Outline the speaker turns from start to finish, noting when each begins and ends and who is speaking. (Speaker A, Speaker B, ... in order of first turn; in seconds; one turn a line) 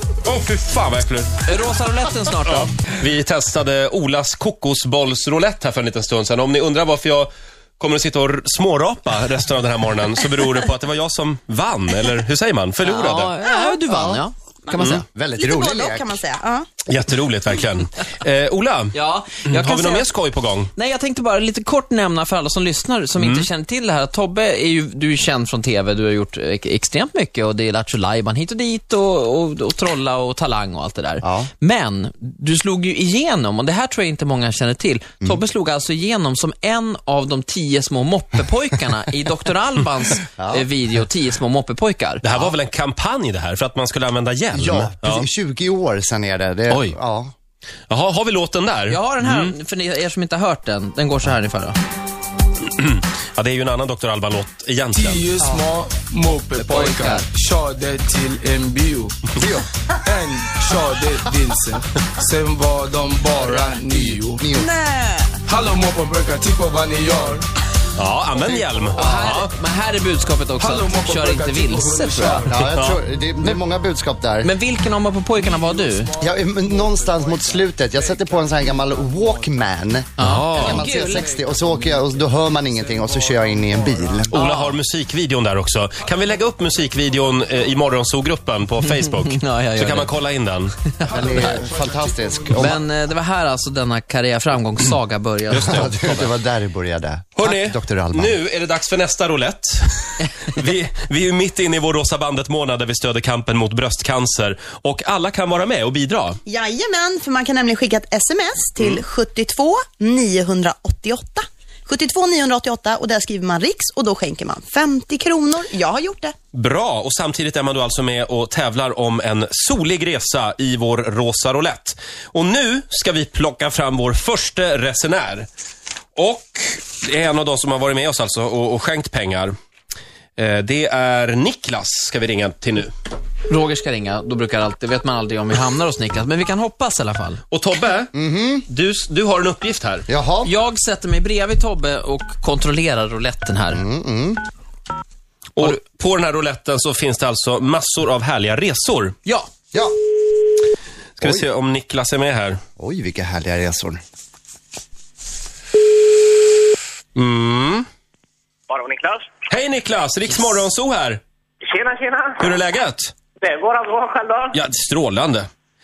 Speaker A: 0.2-1.4
Speaker B: 1.4-2.7
Speaker A: 2.4-13.3
Speaker B: 12.8-14.3
Speaker C: 13.4-13.8
Speaker D: 13.8-16.2
Speaker C: 14.7-16.7
Speaker A: 16.9-18.9
Speaker B: 18.9-20.1
Speaker A: 19.4-20.7
Speaker B: 20.7-42.2
Speaker A: 23.2-23.5
Speaker D: 31.2-31.5
Speaker D: 40.4-40.7
Speaker A: 42.2-45.3
Speaker D: 44.5-47.3
Speaker A: 46.7-47.0
Speaker A: 47.9-49.5
Speaker B: 48.9-51.8
Speaker A: 52.6-55.2
Speaker E: 54.9-59.1
Speaker D: 55.4-55.7
Speaker B: 56.5-57.3
Speaker D: 59.4-59.7
Speaker E: 60.1-64.4
Speaker D: 63.3-64.7
Speaker C: 64.5-65.4
Speaker E: 65.5-67.5
Speaker A: 68.0-69.5
Speaker D: 68.4-68.8
Speaker B: 68.9-72.5
Speaker E: 70.6-72.5
Speaker D: 72.5-74.5
Speaker A: 72.6-73.0
Speaker B: 74.4-76.1
Speaker E: 75.3-79.4
Speaker D: 76.2-84.3
Speaker A: 80.2-80.8
Speaker B: 80.2-81.3
Speaker E: 81.2-84.2
Speaker B: 84.3-84.8
Speaker A: 84.3-90.8
Speaker B: 88.9-90.1
Speaker B: 91.0-91.5
Speaker E: 91.0-92.5
Speaker D: 91.1-92.8
Speaker B: 92.5-96.2
Speaker A: 95.5-96.3
Speaker D: 95.5-98.4
Speaker A: 97.4-106.4
Speaker C: 106.5-116.3
Speaker A: 108.8-109.0
Speaker A: 116.5-125.5
Speaker A: 126.2-129.5
Speaker A: 130.4-132.9
Speaker B: 133.5-137.4
Speaker A: 137.5-138.1
Speaker D: 138.1-138.7
Speaker A: 138.7-140.1
Speaker D: 140.1-140.5
Speaker B: 140.4-143.8
Speaker D: 143.7-144.4
Speaker A: 145.6-149.2
Speaker A: 151.2-152.6
Speaker D: 152.8-154.0
Speaker A: 157.1-157.8
Speaker F: 158.7-159.2
Speaker A: 159.5-161.2
Speaker F: 161.7-162.5
Speaker A: 162.4-163.1
Speaker F: 163.4-164.5
Speaker A: 164.5-165.5